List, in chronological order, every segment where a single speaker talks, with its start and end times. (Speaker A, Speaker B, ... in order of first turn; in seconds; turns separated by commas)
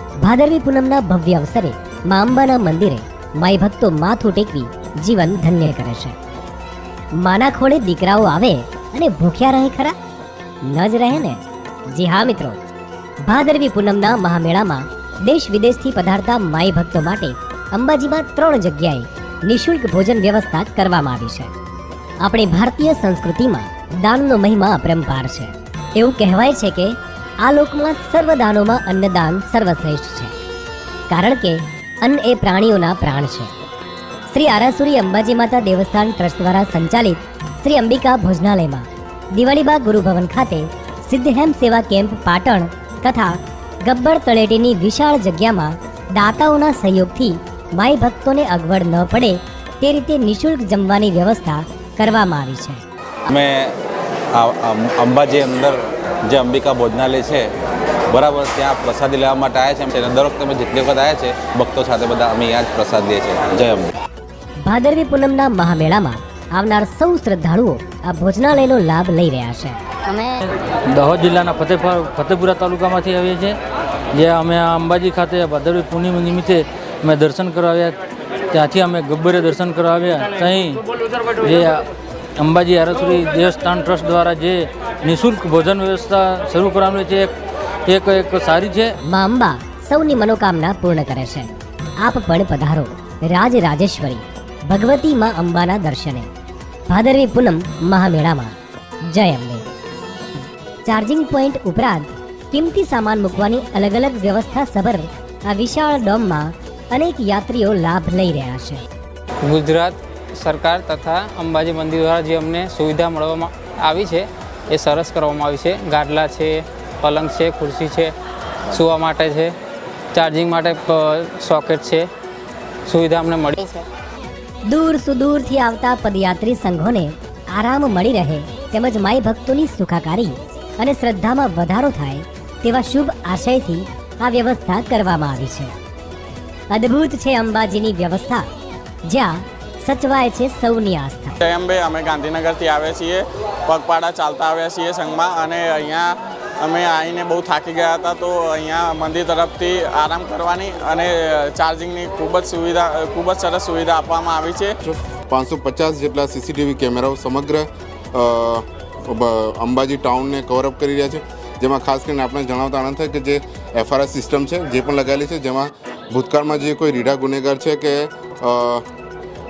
Speaker A: 0.2-6.2, Speaker A: 7.2-10.0, Speaker A: 10.7-12.6, Speaker A: 13.3-21.5, Speaker A: 22.2-30.3, Speaker A: 31.1-33.5, Speaker A: 34.3-52.8, Speaker B: 53.3-53.8, Speaker B: 54.3-57.5, Speaker B: 58.1-63.9, Speaker A: 64.7-69.8, Speaker C: 70.4-73.6, Speaker C: 74.1-78.0, Speaker C: 78.5-81.8, Speaker C: 82.4-87.3, Speaker C: 87.9-89.0, Speaker A: 89.1-96.3, Speaker A: 96.9-98.5, Speaker A: 99.1-99.7, Speaker A: 100.8-108.8, Speaker D: 109.4-118.1, Speaker D: 118.7-119.5, Speaker D: 120.1-122.1, Speaker D: 122.9-123.6, Speaker A: 124.7-135.7, Speaker A: 136.7-138.5, Speaker A: 139.1-141.4, Speaker E: 141.4-154.7, Speaker F: 154.9-168.8